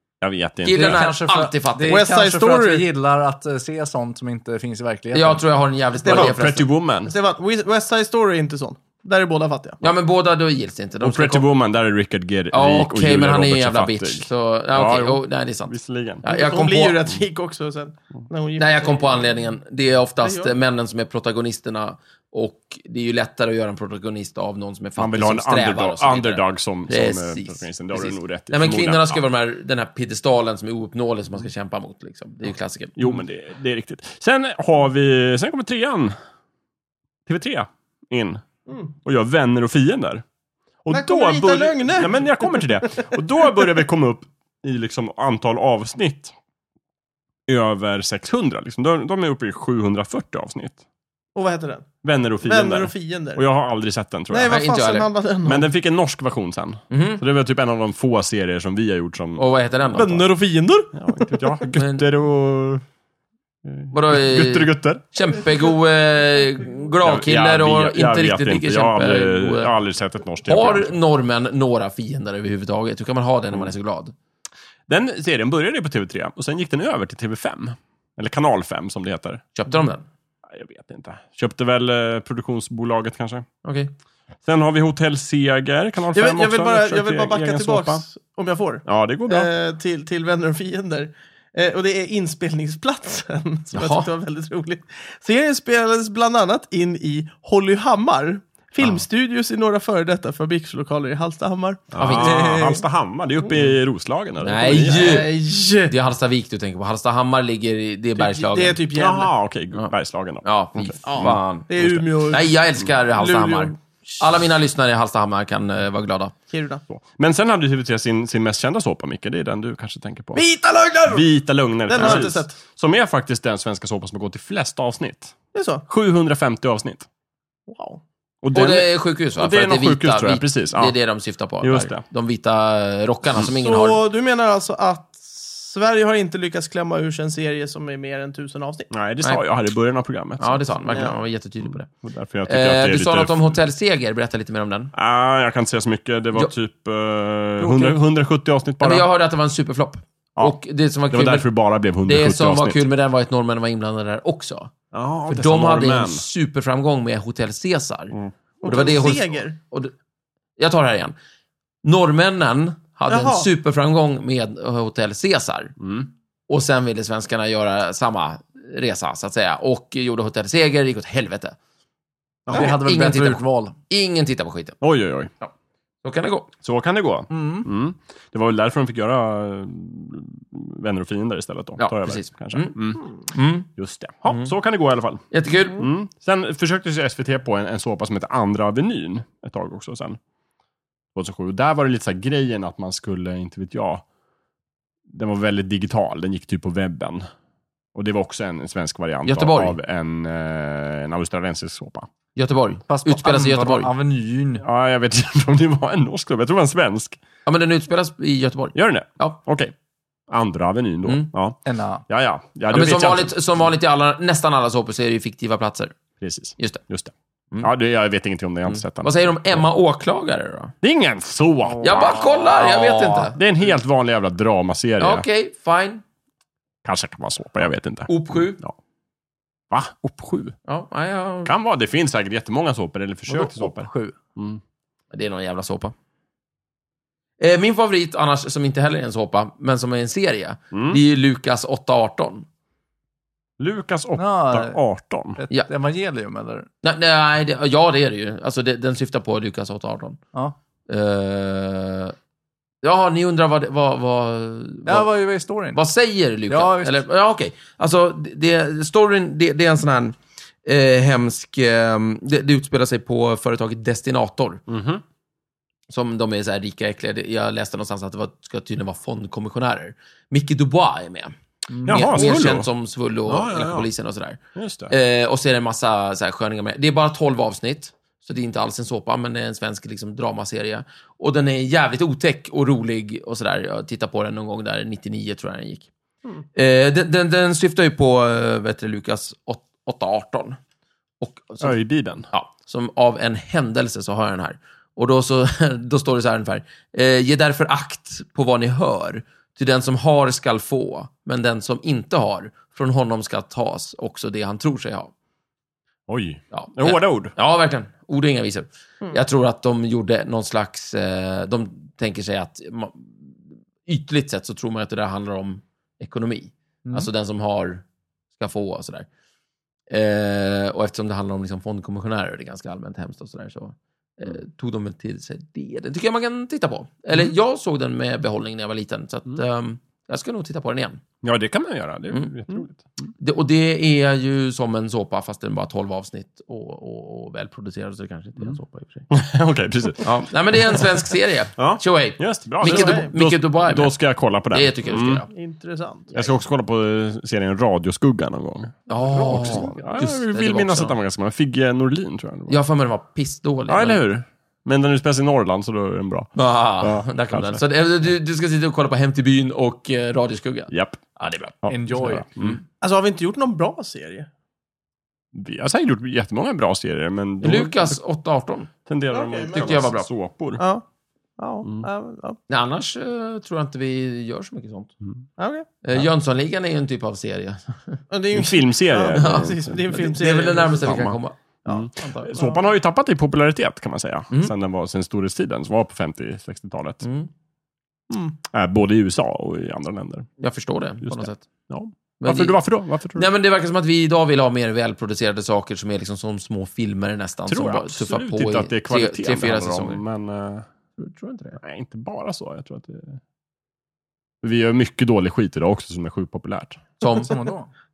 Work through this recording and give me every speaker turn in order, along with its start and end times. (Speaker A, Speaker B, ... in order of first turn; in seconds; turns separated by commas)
Speaker A: 0.2-1.1, Speaker B: 0.6-2.0, Speaker C: 0.7-5.4, Speaker D: 1.9-2.8, Speaker B: 5.1-6.7, Speaker D: 6.0-6.3, Speaker A: 6.1-7.1, Speaker D: 7.0-9.8, Speaker B: 9.8-11.5, Speaker A: 11.0-16.2, Speaker B: 12.5-17.1, Speaker D: 16.2-19.5, Speaker B: 18.6-33.2, Speaker D: 20.2-20.6, Speaker A: 25.0-29.2, Speaker A: 33.0-36.1, Speaker A: 37.3-38.4, Speaker A: 39.0-40.2, Speaker A: 40.8-46.3, Speaker D: 40.9-43.7, Speaker A: 47.5-50.8, Speaker D: 51.3-51.9, Speaker A: 52.0-54.6, Speaker D: 52.4-53.4, Speaker D: 54.3-55.7, Speaker B: 54.5-55.1, Speaker A: 55.4-60.0, Speaker B: 56.9-57.2, Speaker B: 59.4-60.2, Speaker D: 59.9-61.3, Speaker A: 60.9-62.8, Speaker B: 61.7-62.0, Speaker A: 63.6-65.0, Speaker B: 63.9-69.7, Speaker A: 67.0-71.0, Speaker B: 70.4-74.1, Speaker A: 74.9-79.4, Speaker B: 79.5-80.0, Speaker A: 80.5-83.5, Speaker B: 83.6-83.9, Speaker A: 84.4-88.0, Speaker D: 86.1-102.8, Speaker A: 88.8-89.5, Speaker B: 93.7-94.1, Speaker A: 101.9-105.3, Speaker B: 102.0-102.5, Speaker B: 104.4-108.8, Speaker D: 104.9-105.9, Speaker D: 108.2-109.3, Speaker A: 108.9-112.0, Speaker B: 109.7-116.3, Speaker D: 111.0-112.5, Speaker D: 113.1-114.1, Speaker D: 116.5-116.8, Speaker A: 116.9-120.4, Speaker D: 120.3-121.3, Speaker A: 121.1-125.3, Speaker D: 121.9-122.5, Speaker B: 122.0-122.3, Speaker D: 125.5-125.8, Speaker A: 125.9-127.0, Speaker D: 127.7-128.0, Speaker A: 128.4-130.9, Speaker B: 128.5-134.0, Speaker A: 131.6-132.0, Speaker D: 133.4-138.9, Speaker A: 138.9-141.0, Speaker B: 140.4-141.9, Speaker D: 140.9-141.2, Speaker A: 141.9-143.6, Speaker B: 142.4-144.9, Speaker A: 144.9-149.1, Speaker B: 148.8-151.5, Speaker A: 151.1-152.8, Speaker B: 152.0-154.7, Speaker A: 154.9-156.2, Speaker B: 155.3-159.9, Speaker D: 158.6-159.6, Speaker B: 160.6-161.2, Speaker B: 161.8-165.7, Speaker D: 163.1-163.5, Speaker A: 165.8-166.1, Speaker B: 166.5-171.6, Speaker A: 172.5-172.7, Speaker C: 172.5-173.8, Speaker B: 172.5-174.8, Speaker A: 174.8-175.3, Speaker B: 176.0-176.5, Speaker A: 176.6-183.0, Speaker C: 177.3-177.7, Speaker B: 181.8-183.7, Speaker A: 183.8-190.2, Speaker B: 184.2-184.5, Speaker B: 185.3-185.9, Speaker A: 191.1-194.0, Speaker A: 195.1-197.3, Speaker A: 197.9-202.1, Speaker B: 199.2-199.7, Speaker B: 202.3-203.9, Speaker C: 202.9-204.6, Speaker A: 204.6-207.2, Speaker B: 207.4-209.4, Speaker A: 208.7-209.7, Speaker A: 210.3-213.3, Speaker C: 211.7-212.0, Speaker B: 212.7-215.9, Speaker A: 216.2-219.6, Speaker B: 218.7-220.7, Speaker A: 220.8-225.2, Speaker C: 221.7-223.0, Speaker B: 221.8-223.4, Speaker B: 225.0-226.0, Speaker A: 226.8-228.7, Speaker B: 228.1-228.6, Speaker A: 229.7-230.5, Speaker B: 230.7-231.5, Speaker A: 231.4-234.6, Speaker C: 233.3-234.2, Speaker B: 235.1-235.9, Speaker B: 237.4-242.5, Speaker A: 240.7-241.0, Speaker A: 243.6-245.4, Speaker C: 244.2-244.8, Speaker C: 245.4-246.7, Speaker B: 246.8-250.2, Speaker B: 250.9-252.1, Speaker B: 252.8-255.1, Speaker C: 254.8-255.8, Speaker B: 255.7-264.6, Speaker C: 256.5-257.0, Speaker A: 264.7-265.0, Speaker B: 265.9-271.3, Speaker C: 271.7-272.3, Speaker B: 271.8-285.9, Speaker A: 271.9-272.7, Speaker A: 273.3-273.9, Speaker A: 274.6-274.9, Speaker B: 286.5-290.6, Speaker B: 291.2-291.7, Speaker A: 291.6-292.3, Speaker B: 292.3-305.1, Speaker A: 306.1-307.3, Speaker B: 306.5-317.8, Speaker B: 318.4-319.1, Speaker B: 319.9-331.0, Speaker A: 331.2-333.1, Speaker B: 333.2-339.1, Speaker A: 339.1-340.9, Speaker B: 340.0-343.9, Speaker A: 341.6-345.2, Speaker D: 342.6-343.1, Speaker B: 344.5-345.3, Speaker D: 345.3-346.1, Speaker A: 346.1-352.6, Speaker B: 348.9-350.9, Speaker B: 352.5-354.0, Speaker A: 353.7-357.6, Speaker B: 356.3-361.5, Speaker A: 360.7-361.0, Speaker A: 361.6-362.6, Speaker C: 361.7-362.2, Speaker D: 362.8-364.3, Speaker A: 365.3-368.0, Speaker B: 367.4-368.7, Speaker A: 368.9-370.6, Speaker D: 369.1-369.7, Speaker B: 369.5-370.1, Speaker D: 370.6-370.8, Speaker D: 371.4-372.4, Speaker B: 372.5-374.9, Speaker D: 375.4-375.7, Speaker B: 375.8-378.0, Speaker D: 378.1-381.0, Speaker A: 378.3-380.0, Speaker B: 379.1-381.4, Speaker A: 380.6-387.0, Speaker D: 381.6-382.6, Speaker B: 382.0-382.3, Speaker B: 387.0-387.3, Speaker D: 388.1-388.4, Speaker A: 388.5-390.3, Speaker B: 390.4-391.4, Speaker A: 391.0-393.3, Speaker B: 392.2-392.6, Speaker B: 393.1-400.0, Speaker A: 397.5-400.6, Speaker B: 401.0-401.6, Speaker A: 401.6-403.2, Speaker A: 404.4-406.8, Speaker B: 407.0-407.3, Speaker C: 407.2-407.7